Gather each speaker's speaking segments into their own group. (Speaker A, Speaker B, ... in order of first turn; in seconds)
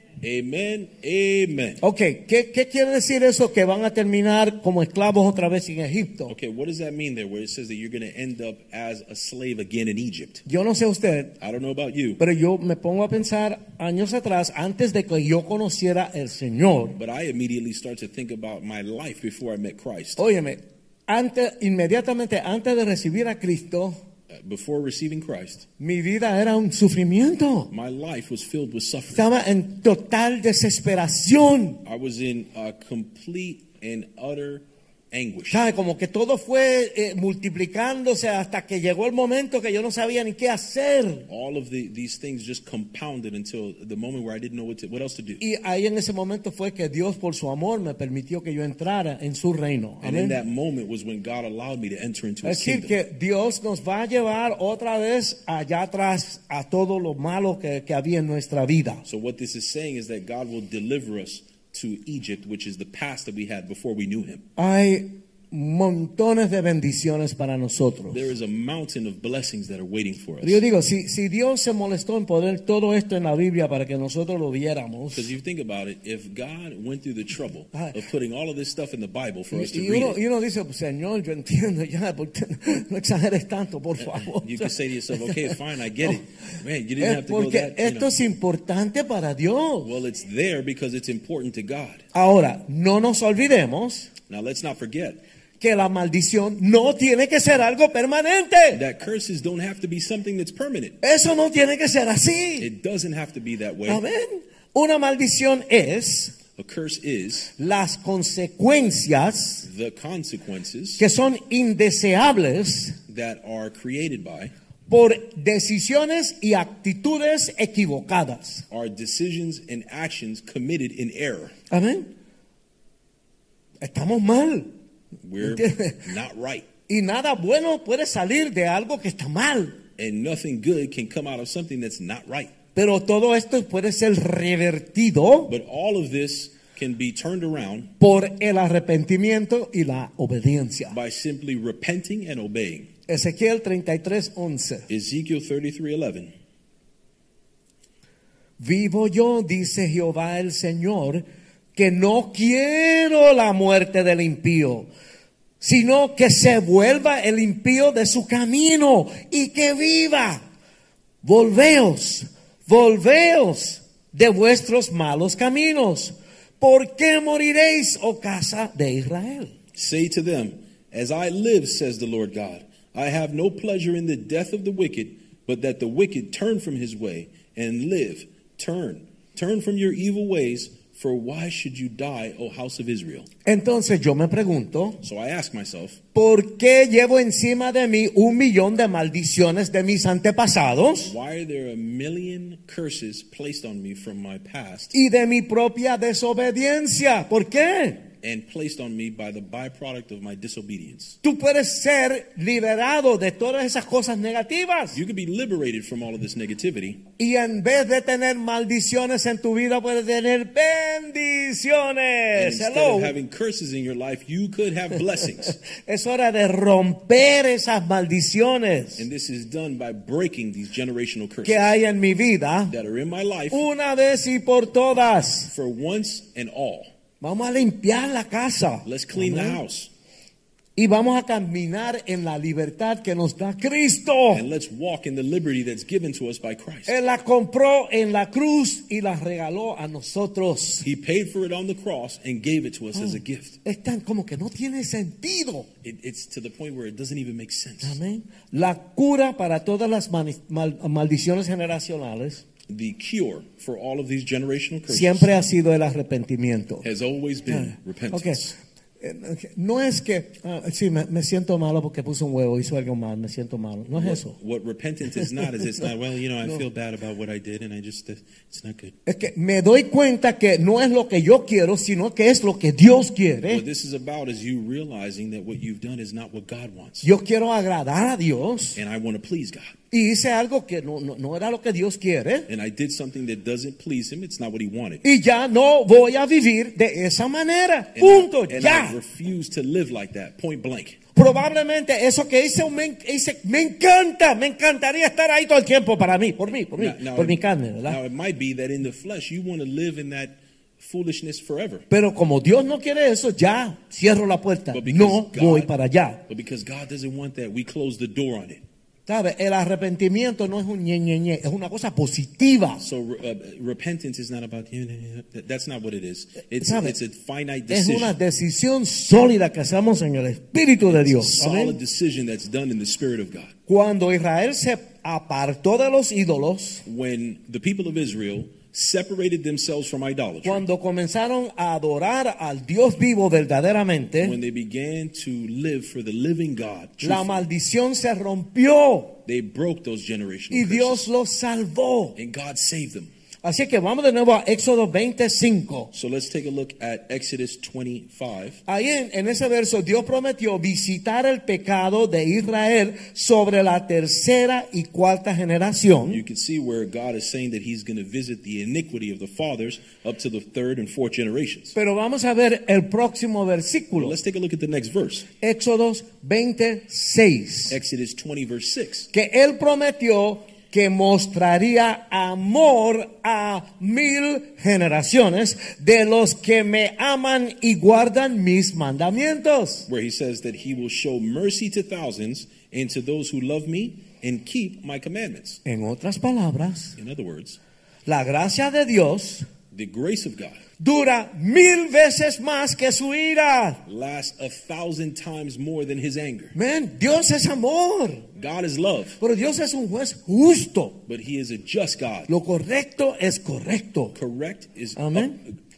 Speaker A: 0.2-1.8, 6.3-10.4, 11.4-12.2, 16.9-20.2, 24.3-25.7, 27.7-29.3, 31.9-35.7, 41.3-45.4, 50.0-53.0, 59.1-64.4, 68.1-70.6, 75.1-80.2, 84.0-88.1, 89.8-92.0, 94.3-95.2, 98.7-101.0, 102.6-104.0, 106.6-107.5, 109.6-111.0, 113.1-114.5, 118.7-121.5, 125.2-126.7, 130.0-132.5, 135.5-137.9, 140.9-142.9, 144.9-146.3, 169.8-183.3, 185.0-186.0, 191.0-194.9, 198.2-201.2, 204.9-207.0, 212.3-215.6, 219.0-221.8, 222.7-223.7, 225.5-226.9, 228.8-229.9, 234.3-236.9, 240.8-243.6, 245.8-248.0, 252.7-255.4, 256.8-258.6, 263.9-268.9, 273.5-277.1, 278.8-279.8, 282.5-285.0, 287.9-291.0, 296.7-301.9, 304.7-305.7, 306.3-308.6, 312.8-318.1, 320.8-323.5, 326.9-330.6, 334.2-337.5, 339.3-341.1, 342.2-343.1, 345.9-348.6, 356.1-361.8, 363.9-365.3, 367.7-369.1, 379.9-385.6, 387.0-387.6, 389.7-390.6, 393.9-396.5, 398.4-399.2, 401.1-402.3, 404.1-405.6
Speaker B: 1.8-6.3, 10.5-11.4, 12.2-17.0, 20.2-24.0, 25.8-27.7, 29.1-31.8, 35.5-41.3, 45.4-50.4, 52.4-59.0, 64.6-68.2, 70.4-75.3, 79.5-85.6, 87.0-90.0, 92.1-94.1, 95.6-98.8, 101.0-102.7, 103.9-106.4, 107.6-109.7, 111.0-113.0, 114.9-118.7, 121.7-122.1, 123.8-124.7, 125.4-126.0, 126.9-129.8, 132.8-135.5, 138.0-141.0, 143.1-144.9, 148.6-151.2, 151.8-154.9, 155.6-160.4, 161.2-169.5, 183.4-185.0, 186.1-191.1, 194.9-198.1, 201.2-205.0, 207.2-213.2, 215.6-219.1, 221.4-222.7, 223.5-225.5, 227.2-229.6, 230.8-234.4, 236.9-240.9, 242.9-245.7, 247.8-252.4, 254.9-256.9, 257.5-264.4, 269.1-273.6, 277.0-278.8, 279.9-282.5, 285.0-289.0, 291.1-298.0, 301.9-306.2, 309.1-312.8, 316.6-317.0, 317.7-321.8, 323.7-326.8, 330.4-334.4, 337.0-339.2, 340.5-342.2, 343.4-345.9, 348.7-356.2, 361.8-364.2, 365.4-367.8, 369.1-379.9, 385.6-387.0, 388.1-389.5, 390.8-393.8, 396.5-398.3, 399.2-401.0, 402.3-404.2, 405.0-405.4